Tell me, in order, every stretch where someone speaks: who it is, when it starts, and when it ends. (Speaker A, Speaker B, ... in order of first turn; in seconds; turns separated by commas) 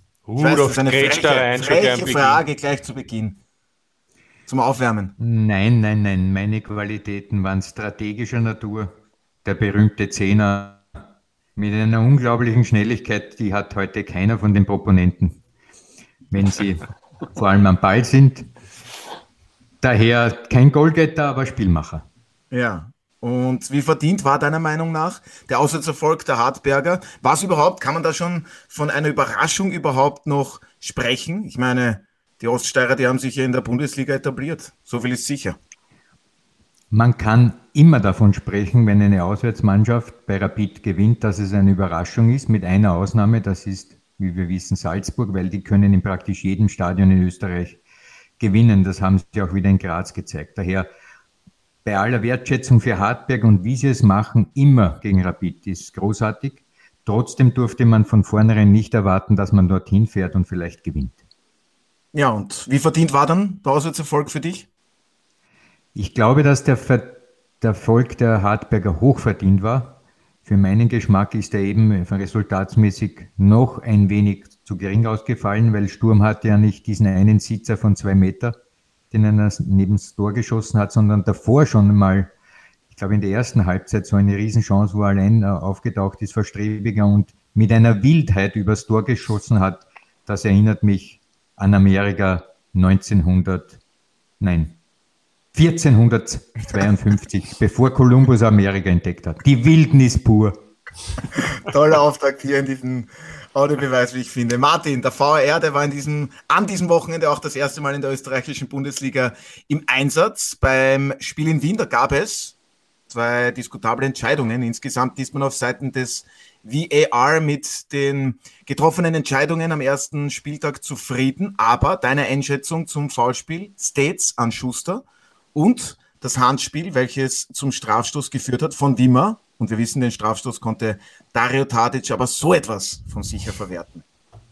Speaker A: 0.3-2.4, Speaker B: 0.4-3.4, Speaker B: 4.5-5.2, Speaker C: 5.2-8.9, Speaker C: 9.4-10.8, Speaker C: 11.6-15.4, Speaker C: 16.3-18.5, Speaker C: 19.8-22.1, Speaker B: 22.5-35.6, Speaker C: 36.9-47.8, Speaker C: 48.4-50.9, Speaker C: 51.9-61.2, Speaker B: 62.1-64.7, Speaker C: 66.0-78.6, Speaker C: 79.1-82.3, Speaker C: 82.9-93.8, Speaker C: 94.4-94.8, Speaker C: 95.5-100.6, Speaker B: 101.5-112.5, Speaker B: 113.1-134.0